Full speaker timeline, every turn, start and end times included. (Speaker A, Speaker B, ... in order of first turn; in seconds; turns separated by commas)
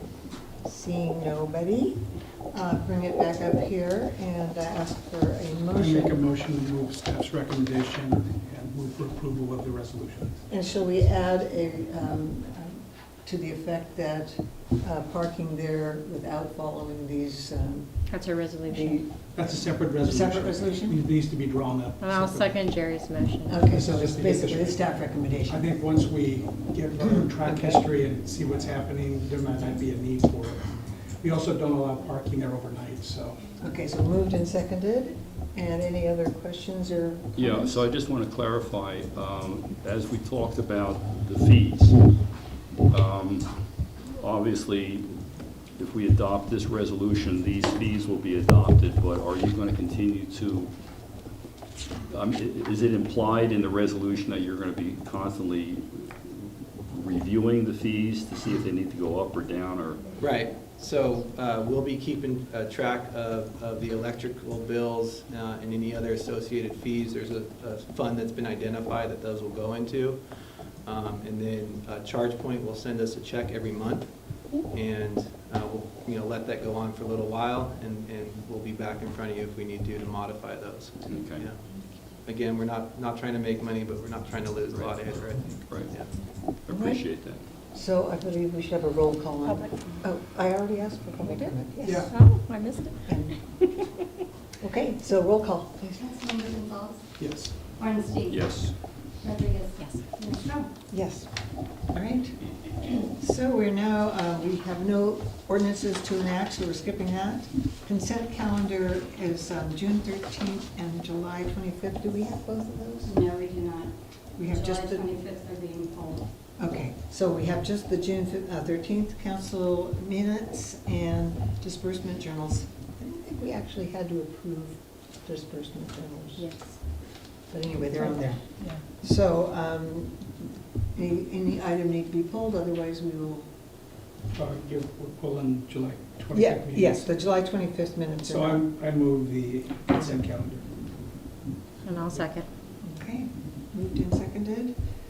Speaker A: 0.6-6.2, Speaker B: 5.7-10.4, Speaker A: 10.5-19.4, Speaker C: 18.1-19.0, Speaker B: 19.3-22.6, Speaker A: 20.0-21.0, Speaker C: 22.0-23.6, Speaker A: 23.5-25.6, Speaker B: 23.7-33.5, Speaker A: 27.0-27.3, Speaker D: 27.5-27.8, Speaker A: 33.6-37.8, Speaker E: 37.3-42.0, Speaker E: 42.9-43.5, Speaker E: 44.1-45.1, Speaker E: 45.8-50.7, Speaker E: 52.1-60.1, Speaker D: 60.2-70.2, Speaker D: 70.8-86.3, Speaker E: 81.0-81.5, Speaker E: 84.7-87.4, Speaker A: 86.7-92.2, Speaker C: 89.5-89.9, Speaker C: 91.2-93.9, Speaker B: 91.8-92.1, Speaker A: 93.0-93.6, Speaker A: 94.6-96.4, Speaker F: 96.3-97.0, Speaker B: 97.2-97.7, Speaker F: 97.8-100.7, Speaker E: 98.2-98.8, Speaker C: 99.8-100.0, Speaker A: 100.9-113.3, Speaker F: 113.1-116.3, Speaker A: 114.3-115.2, Speaker A: 116.5-133.6, Speaker B: 134.3-137.1, Speaker A: 136.3-138.6, Speaker B: 138.2-140.7, Speaker C: 141.8-142.5, Speaker A: 142.8-144.8